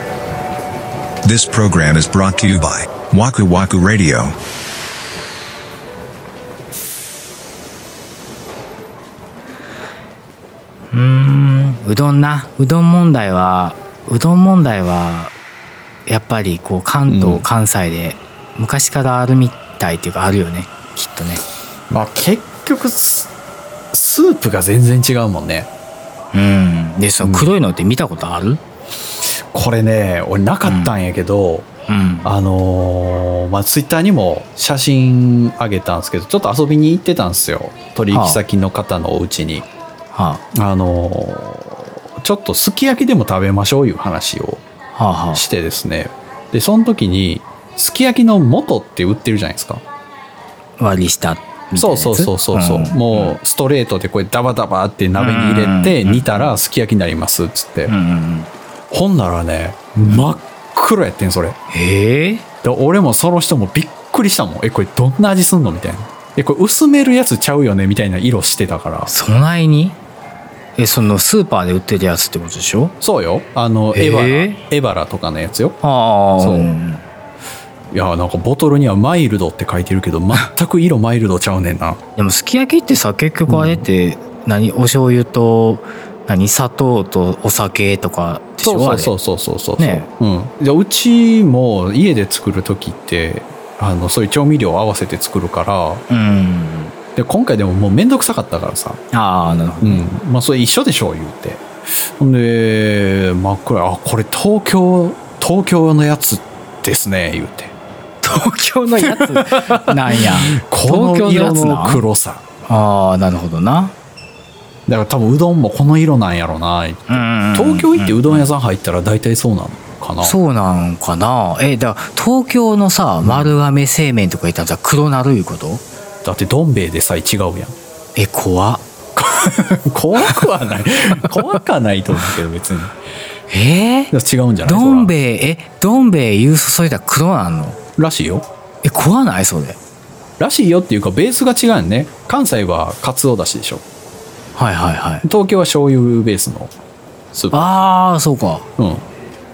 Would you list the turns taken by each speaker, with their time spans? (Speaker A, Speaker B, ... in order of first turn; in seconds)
Speaker A: 1.2-4.4
Speaker B: 10.9-15.3, 16.1-21.4, 26.3-28.6, 30.6-30.9, 31.9-32.3, 38.1-38.4, 40.1-40.4, 45.0-45.4, 50.8-53.4, 55.2-56.6, 57.9-58.5, 61.7-62.5, 69.1-70.0, 70.8-73.0, 73.9-74.6, 75.8-77.0, 82.2-89.1, 89.8-90.1, 96.1-96.9, 99.1-100.1, 108.2-112.0, 112.7-114.0, 117.1-118.5, 120.2-125.8, 128.2-128.8, 133.5-134.1, 134.7-137.8, 138.8-139.8, 144.6-145.3, 147.5-148.7
Speaker C: 17.1-17.4, 21.9-23.3, 23.9-25.7, 27.2-27.5, 29.5-31.7, 32.2-39.7, 40.5-44.6, 45.3-49.8, 51.8-58.0, 58.9-61.6, 62.6-69.1, 73.0-75.8, 76.4-76.7, 77.9-82.0, 83.5-83.9, 88.6-96.0, 97.2-99.0, 99.8-107.7, 109.0-112.4, 114.9-120.4, 123.2-123.5, 126.2-127.8, 129.2-132.9, 134.1-135.1, 138.0-138.4, 140.4-143.8, 145.2-146.7, 147.3-147.8, 148.8-149.1